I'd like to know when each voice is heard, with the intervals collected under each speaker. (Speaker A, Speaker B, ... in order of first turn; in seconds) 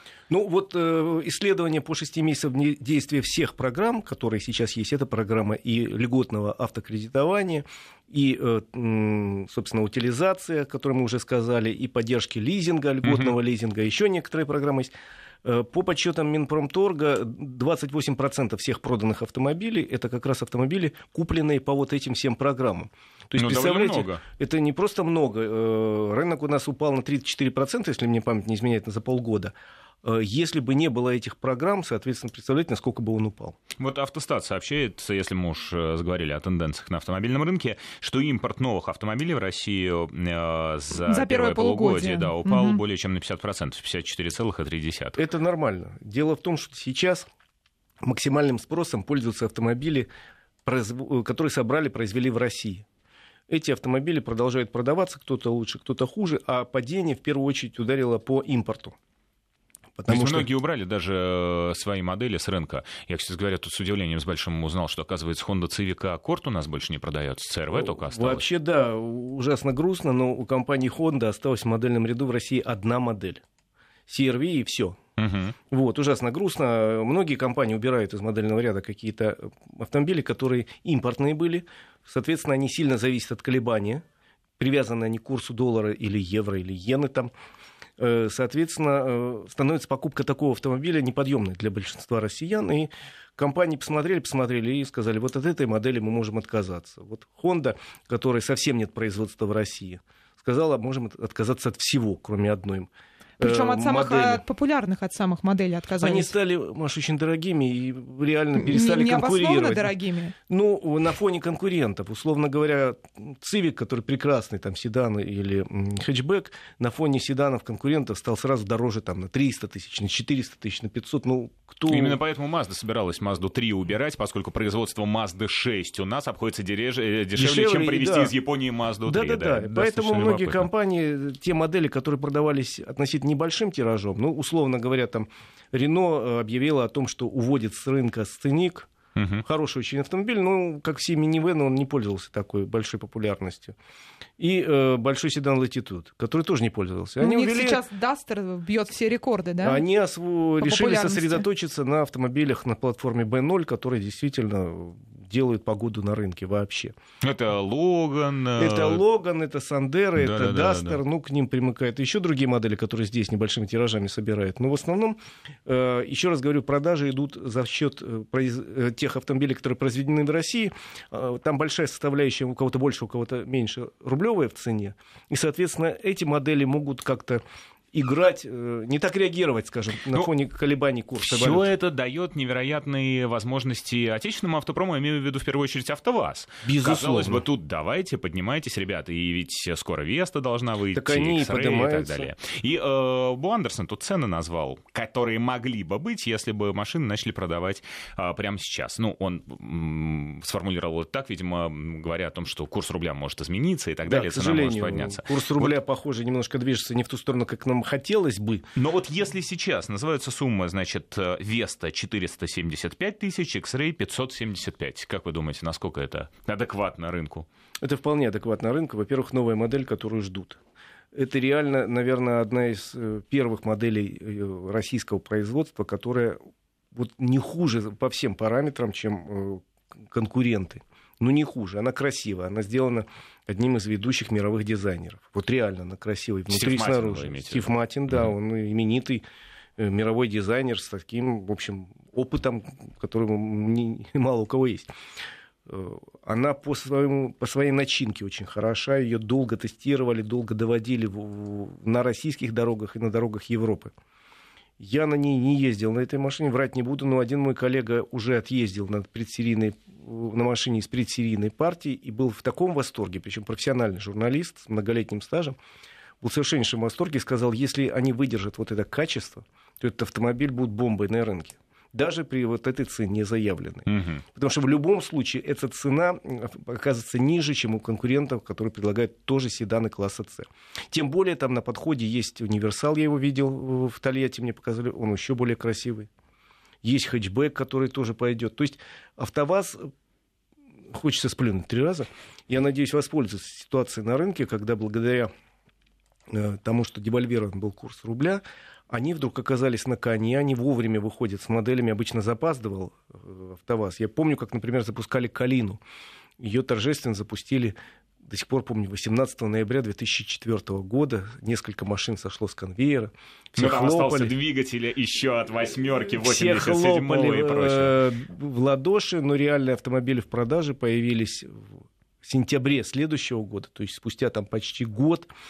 Speaker A: 0.3-14.9, 15.4-33.6, 45.2-47.3, 48.0-50.1, 50.7-52.9, 53.5-59.0, 60.0-60.5, 67.7-73.4, 74.1-75.0, 75.7-84.0, 84.6-87.3, 88.0-104.4, 106.0-109.9, 110.5-122.2, 127.4-128.3, 129.1-138.9, 139.4-143.8, 144.4-147.8, 149.6-157.0, 158.6-177.4, 177.9-181.7, 186.6-187.4, 190.9-192.3, 204.1-208.7, 217.8-220.6, 221.1-226.4, 226.9-239.2, 239.8-244.9, 245.7-253.9, 254.8-265.6, 266.2-286.1, 286.8-289.9, 290.9-295.3, 296.3-305.8, 306.4-314.3, 316.1-325.3
Speaker B: 13.0-13.4, 23.4-24.2, 33.8-45.2, 60.1-68.4, 75.2-75.5, 121.9-130.7, 139.2-139.4, 157.2-159.0, 160.2-161.0, 181.2-205.8, 208.8-217.5, 236.5-238.3, 273.9-274.2, 313.6-318.0
Speaker C: 41.1-42.8, 103.4-106.3, 108.6-110.3, 147.2-149.8, 150.6-151.4